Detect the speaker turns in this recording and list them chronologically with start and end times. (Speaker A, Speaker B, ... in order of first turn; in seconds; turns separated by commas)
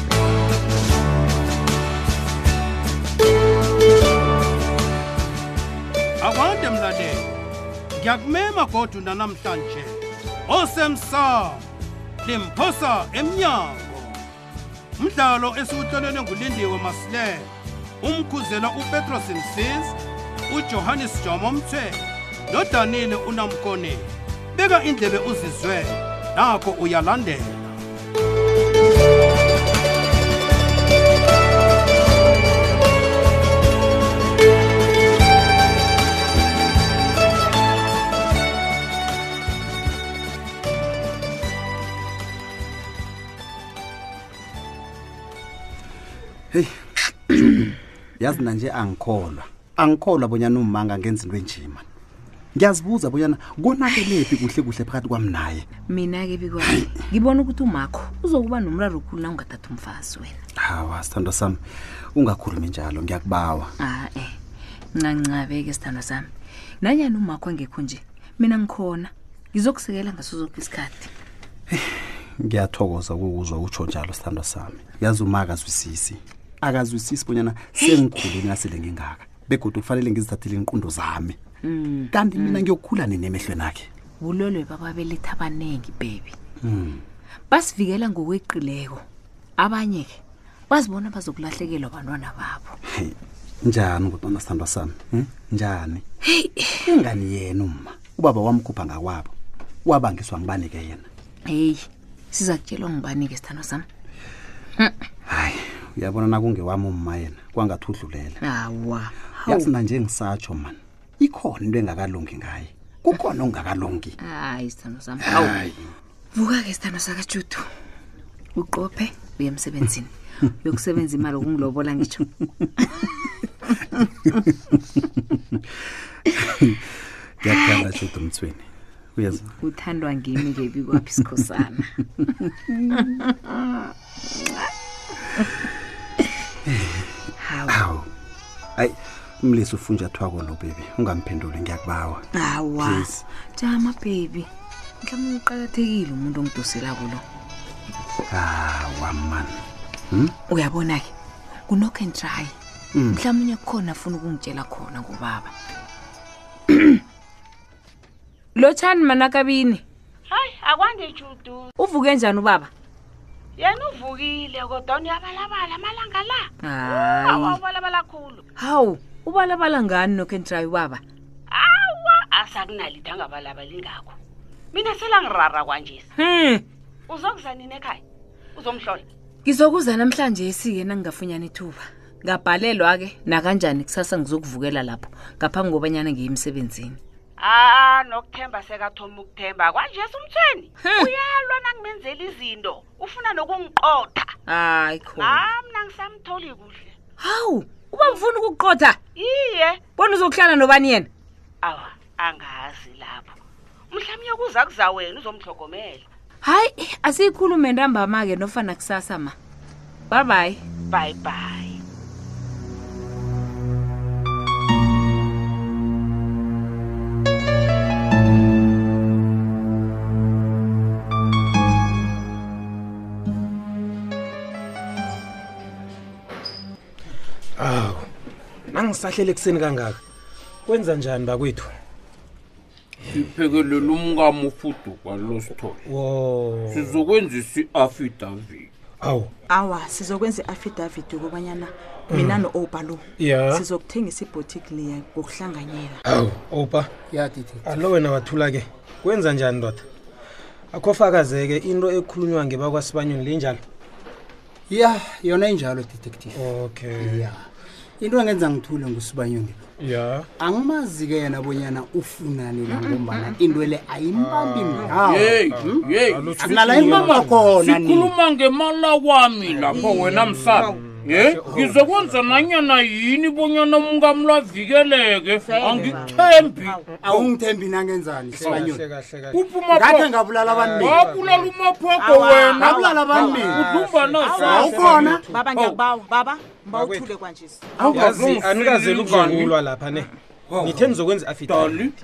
Speaker A: 6.2-7.3, Speaker A: 7.9-11.7, Speaker A: 12.2-14.2, Speaker A: 15.0-27.7, Speaker B: 46.5-51.9, Speaker B: 52.5-55.6, Speaker C: 55.9-60.4, Speaker B: 60.6-61.6, Speaker B: 62.1-63.7, Speaker C: 63.8-64.3, Speaker C: 65.0-66.3, Speaker C: 66.8-71.1, Speaker B: 71.7-81.4, Speaker C: 81.6-82.6, Speaker B: 82.1-83.9, Speaker C: 84.2-86.3, Speaker B: 86.6-87.0, Speaker C: 87.5-89.0, Speaker C: 89.6-90.2, Speaker C: 90.7-92.8, Speaker B: 92.9-96.0, Speaker C: 96.2-96.9, Speaker B: 96.8-99.3, Speaker B: 99.8-101.1, Speaker C: 101.5-103.8, Speaker B: 105.3-108.4, Speaker C: 108.4-109.7, Speaker B: 109.5-114.2, Speaker C: 114.2-115.6, Speaker B: 115.2-115.7, Speaker C: 116.3-117.7, Speaker C: 118.5-123.3, Speaker B: 125.0-125.6, Speaker B: 126.4-126.9, Speaker B: 127.4-129.5, Speaker C: 129.6-131.9, Speaker C: 132.9-133.2, Speaker B: 136.7-137.1, Speaker C: 137.4-137.8, Speaker B: 137.7-138.1, Speaker B: 138.8-142.2, Speaker C: 142.3-144.5, Speaker B: 142.8-143.2, Speaker C: 145.0-147.2, Speaker B: 148.3-149.6, Speaker C: 150.5-151.1, Speaker C: 151.7-152.5, Speaker B: 152.9-153.2, Speaker C: 153.1-155.5, Speaker C: 156.7-157.0, Speaker C: 158.6-159.8, Speaker D: 160.3-161.7, Speaker C: 161.8-162.7, Speaker D: 163.6-168.4, Speaker C: 166.6-167.6, Speaker C: 168.6-171.0, Speaker D: 171.5-174.1, Speaker D: 174.7-176.1, Speaker C: 176.2-176.6, Speaker D: 177.1-178.0, Speaker D: 178.5-179.1, Speaker C: 179.4-187.0, Speaker D: 187.4-194.3, Speaker C: 190.8-191.1, Speaker C: 194.5-195.4, Speaker D: 195.2-196.9, Speaker C: 197.2-199.0, Speaker D: 199.2-199.8, Speaker C: 200.0-201.1, Speaker D: 201.6-203.4, Speaker D: 203.9-206.0, Speaker C: 206.4-209.3, Speaker C: 210.1-210.6, Speaker D: 210.9-211.8, Speaker E: 227.6-228.1, Speaker E: 228.7-230.0, Speaker E: 230.7-231.7, Speaker F: 233.1-235.8, Speaker E: 235.8-237.0, Speaker F: 236.7-238.7, Speaker E: 239.0-239.3, Speaker G: 239.5-246.0, Speaker E: 242.1-242.4, Speaker E: 243.2-243.6, Speaker E: 246.1-246.9, Speaker H: 247.1-247.8, Speaker E: 247.6-249.8, Speaker E: 250.7-253.6, Speaker H: 254.7-256.4, Speaker E: 256.3-257.3, Speaker H: 257.0-257.4, Speaker H: 258.0-259.6, Speaker E: 259.8-260.3, Speaker H: 260.4-265.8, Speaker E: 264.1-267.5, Speaker F: 264.9-276.8, Speaker H: 266.4-268.1, Speaker E: 269.4-272.5, Speaker G: 275.4-275.9, Speaker E: 275.7-277.3, Speaker H: 277.0-278.8, Speaker E: 278.3-279.4, Speaker F: 279.3-280.2, Speaker H: 279.7-280.9, Speaker E: 280.4-281.5, Speaker F: 280.8-285.8, Speaker G: 281.9-283.6, Speaker H: 282.6-283.6, Speaker E: 283.1-285.3, Speaker G: 284.2-287.8, Speaker H: 284.5-285.2, Speaker E: 286.7-287.1, Speaker F: 287.8-289.5, Speaker E: 287.8-291.9, Speaker F: 290.5-290.9, Speaker F: 291.5-291.9